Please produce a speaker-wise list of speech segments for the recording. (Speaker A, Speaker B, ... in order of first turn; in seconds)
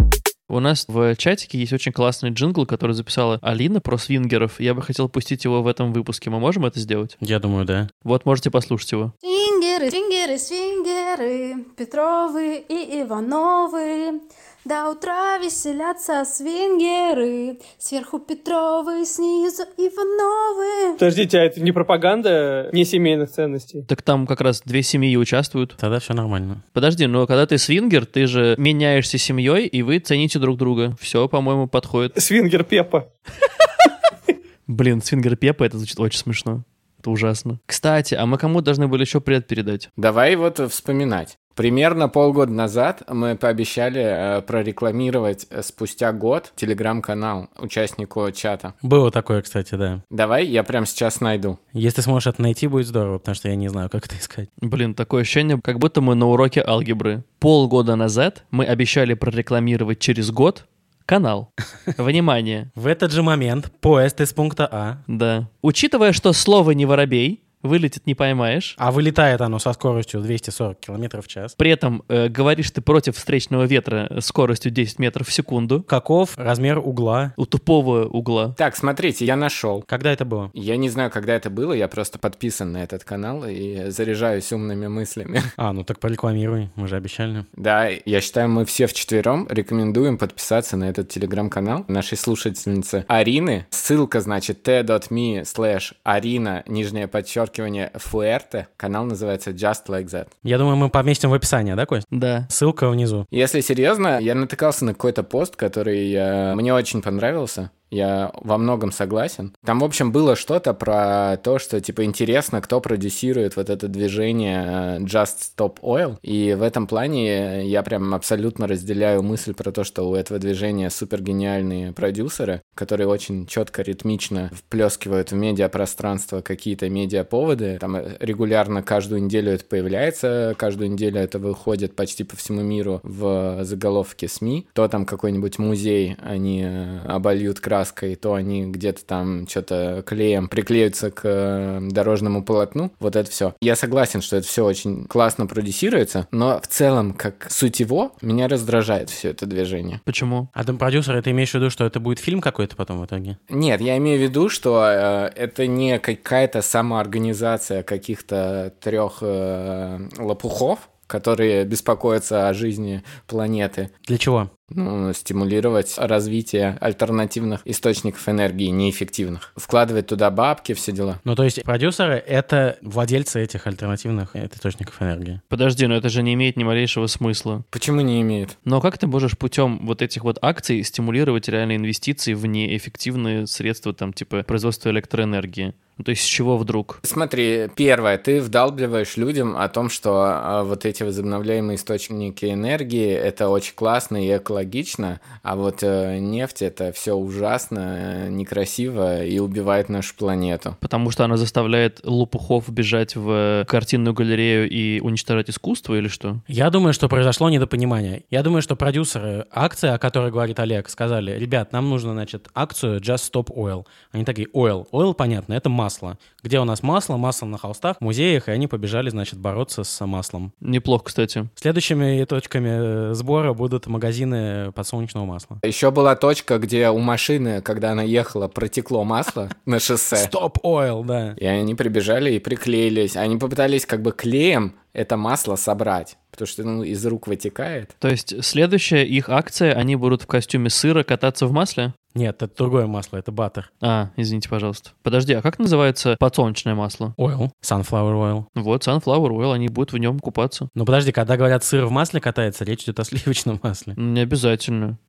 Speaker A: 0.5-7.2, 8.0-9.1, 23.9-25.8, 26.7-32.1, 34.7-39.9, 54.6-62.7, 65.1-68.8, 71.6-75.8, 77.4-78.6, 102.1-102.5, 150.1-150.5, 175.5-177.6, 178.6-187.0, 200.8-206.4, 220.6-221.5, 238.0-241.9, 243.8-247.1, 248.5-250.7, 253.9-255.0
Speaker B: 7.2-7.9, 25.8-26.6, 48.8-50.0, 51.7-54.5, 62.7-65.0, 68.8-71.5, 75.9-77.3, 79.9-80.5, 85.6-87.5, 100.4-103.2, 150.5-153.4, 164.1-164.5, 171.2-175.4, 206.5-220.5, 221.6-225.6, 230.1-231.4, 242.1-243.7, 247.2-248.5, 250.7-253.9
Speaker C: 9.2-21.0
Speaker D: 21.0-23.8, 32.1-33.1
Speaker E: 40.0-48.7, 50.1-51.6, 78.6-79.8, 80.5-85.4, 87.6-100.3, 103.3-150.0, 153.5-163.9, 164.7-171.2, 177.7-178.5, 187.0-200.8, 225.6-230.3, 231.4-237.9